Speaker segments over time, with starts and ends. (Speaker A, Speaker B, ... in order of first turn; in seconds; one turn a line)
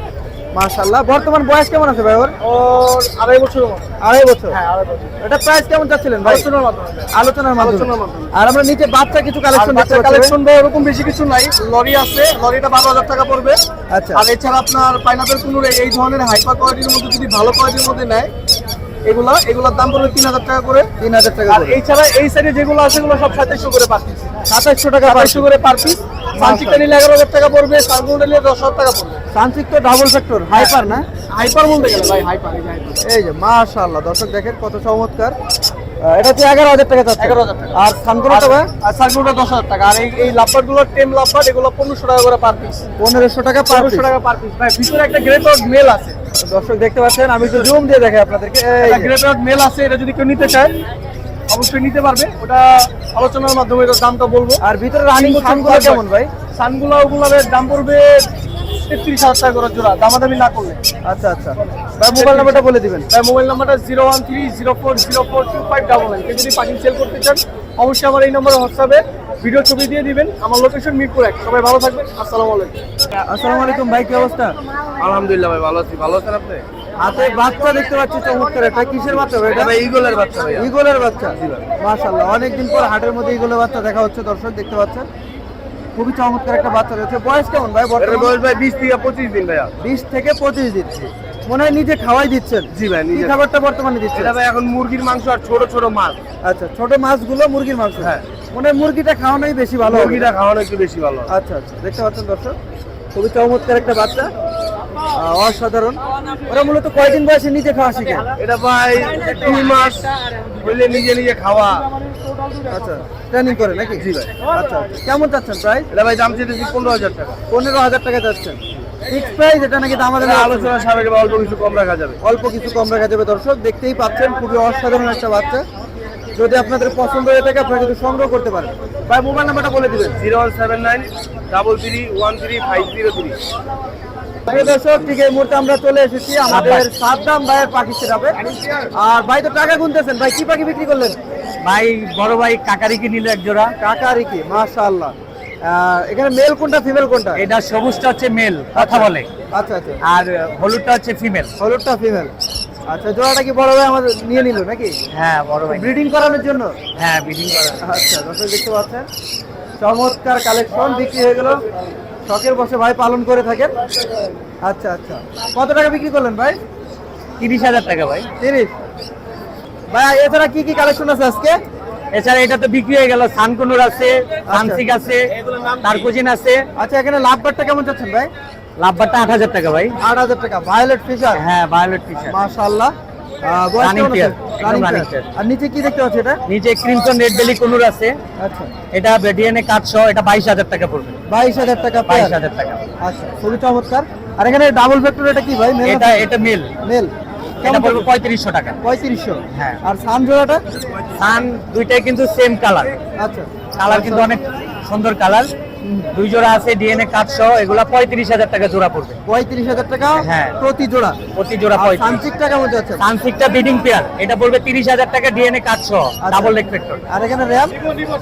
Speaker A: 0.5-2.3
Speaker B: 2.4-3.9
Speaker A: 4.0-4.6
Speaker B: 4.5-5.1
Speaker A: 5.2-6.5
Speaker B: 6.2-8.3
Speaker A: 7.1-10.4
Speaker B: 9.5-13.6
Speaker A: 13.9-14.2
Speaker B: 14.1-18.3
Speaker B: 19.1-20.9
Speaker A: 21.0-21.8
Speaker B: 21.5-24.3
Speaker A: 24.5-25.5
Speaker B: 25.1-29.2
Speaker A: 26.4-26.8
Speaker A: 29.3-31.1
Speaker B: 30.5-33.0
Speaker A: 33.0-35.4
Speaker A: 36.0-38.7
Speaker B: 37.2-37.8
Speaker B: 38.3-42.8
Speaker A: 43.0-44.1
Speaker B: 43.7-46.2
Speaker A: 46.4-49.1
Speaker B: 47.4-47.7
Speaker B: 48.8-50.7
Speaker B: 51.5-54.6
Speaker A: 54.6-56.3
Speaker B: 55.1-56.0
Speaker B: 56.5-58.3
Speaker B: 58.8-60.8
Speaker A: 61.0-63.1
Speaker B: 62.1-72.8
Speaker A: 73.2-74.6
Speaker B: 75.0-76.7
Speaker A: 77.0-79.7
Speaker B: 79.4-80.7
Speaker A: 80.6-85.1
Speaker B: 81.4-81.7
Speaker A: 86.0-88.4
Speaker B: 88.0-89.7
Speaker A: 89.8-90.9
Speaker A: 91.5-94.3
Speaker B: 92.7-93.4
Speaker B: 94.2-96.2
Speaker A: 96.4-100.3
Speaker B: 98.0-98.2
Speaker B: 99.8-101.3
Speaker A: 101.3-102.6
Speaker A: 103.1-104.3
Speaker A: 105.2-108.3
Speaker B: 108.4-111.9
Speaker A: 112.7-115.9
Speaker B: 114.0-114.3
Speaker B: 115.9-117.4
Speaker A: 117.5-120.7
Speaker B: 120.2-122.2
Speaker A: 122.2-125.7
Speaker A: 126.3-128.7
Speaker B: 129.1-133.4
Speaker A: 134.5-138.4
Speaker C: 136.5-136.8
Speaker A: 139.0-141.2
Speaker C: 141.6-143.7
Speaker A: 143.8-145.1
Speaker A: 145.7-147.4
Speaker C: 147.4-149.3
Speaker A: 148.8-150.0
Speaker C: 150.0-151.5
Speaker A: 151.6-152.3
Speaker A: 152.9-154.9
Speaker C: 155.1-155.9
Speaker A: 155.7-156.8
Speaker C: 157.0-157.8
Speaker A: 157.8-159.1
Speaker A: 159.8-161.6
Speaker A: 162.3-163.7
Speaker A: 164.7-166.6
Speaker C: 167.4-168.3
Speaker A: 168.4-168.7
Speaker A: 169.9-171.6
Speaker C: 172.1-176.7
Speaker A: 174.5-174.8
Speaker A: 176.8-178.3
Speaker C: 178.8-180.0
Speaker A: 180.0-181.4
Speaker C: 181.4-182.3
Speaker A: 182.3-186.4
Speaker C: 183.8-185.3
Speaker C: 186.5-188.2
Speaker A: 188.4-188.7
Speaker C: 188.9-191.2
Speaker A: 191.3-192.4
Speaker C: 192.1-192.8
Speaker A: 193.0-196.3
Speaker C: 195.8-196.7
Speaker A: 196.8-198.1
Speaker C: 197.6-198.8
Speaker A: 198.8-200.6
Speaker C: 199.5-199.8
Speaker C: 201.2-203.0
Speaker A: 203.2-204.3
Speaker C: 203.8-205.5
Speaker A: 205.8-206.1
Speaker C: 206.1-209.2
Speaker A: 209.3-211.2
Speaker C: 210.2-210.6
Speaker C: 211.3-212.2
Speaker A: 211.8-213.0
Speaker C: 213.0-217.0
Speaker A: 216.2-216.6
Speaker A: 217.1-217.8